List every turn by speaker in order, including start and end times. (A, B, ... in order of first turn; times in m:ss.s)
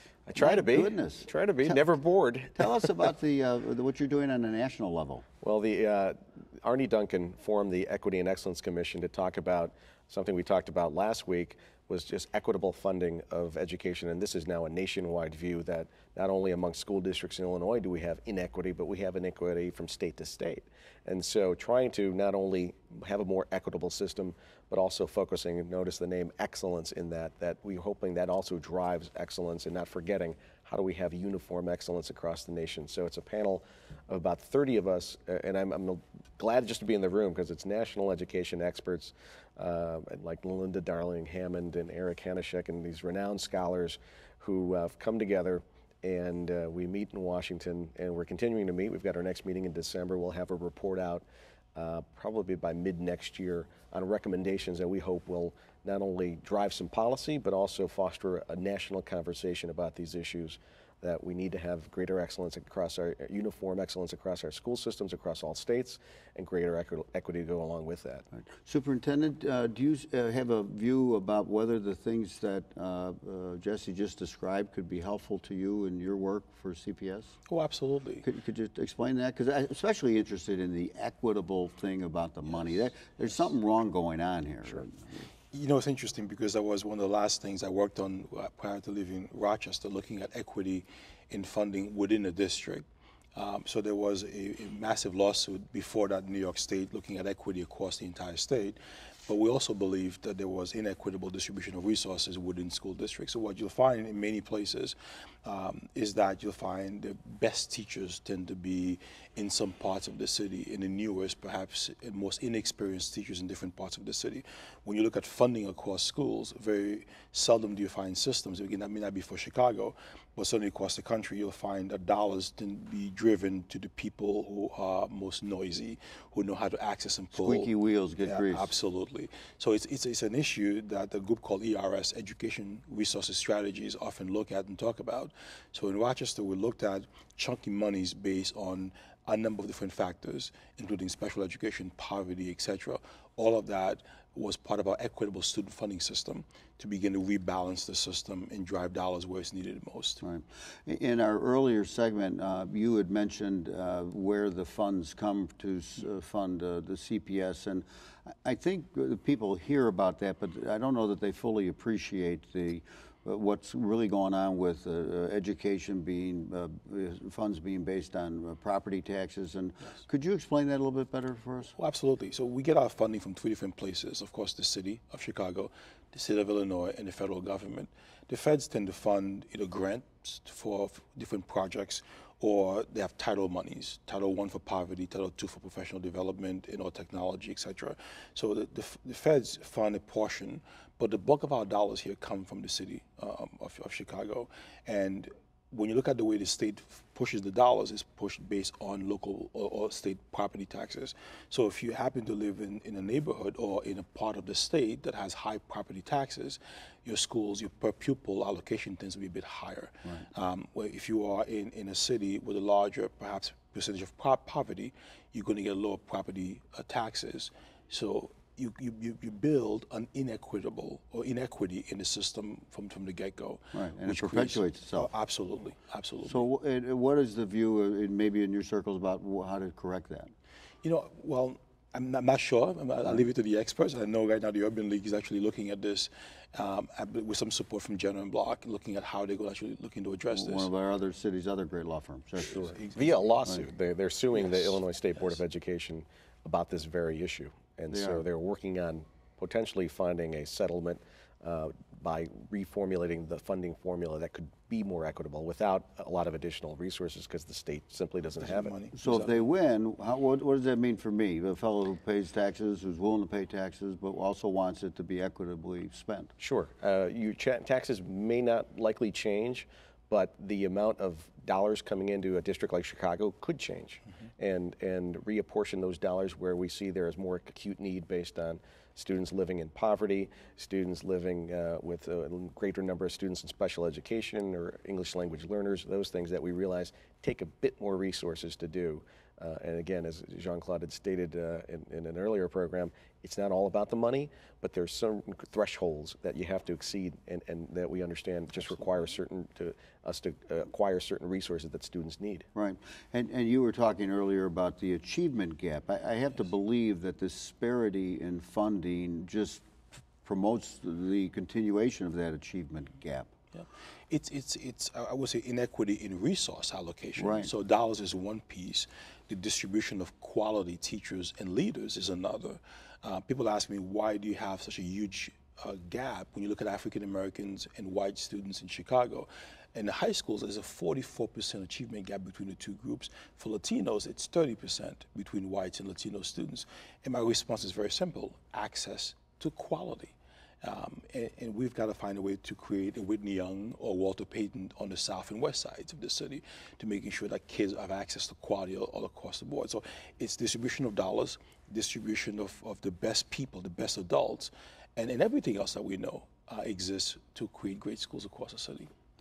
0:00.3-0:03.1 A
0:00.4-0:01.8 B
0:02.6-0:05.2 B
0:05.4-1:08.2 A
1:08.5-1:17.4 B
1:17.5-1:18.2 C
1:18.2-1:25.3 B
1:25.5-2:07.7 C
2:07.4-2:08.7 B
2:08.3-2:30.2 C
2:30.2-2:37.8 B
2:38.4-2:51.7 B
2:51.8-3:46.5 C
3:43.7-3:45.1 B
3:46.3-3:50.3 B
3:50.8-4:00.7 C
4:00.3-4:02.8 B
4:02.5-4:18.7 A
4:02.6-4:03.3 C
4:07.9-4:08.2 B
4:18.4-4:19.4 C
4:19.0-4:26.3 B
4:26.4-5:02.5 A
5:02.6-5:09.6 B
5:10.2-5:13.3 B
5:13.5-5:58.9 C
5:17.2-5:17.5 B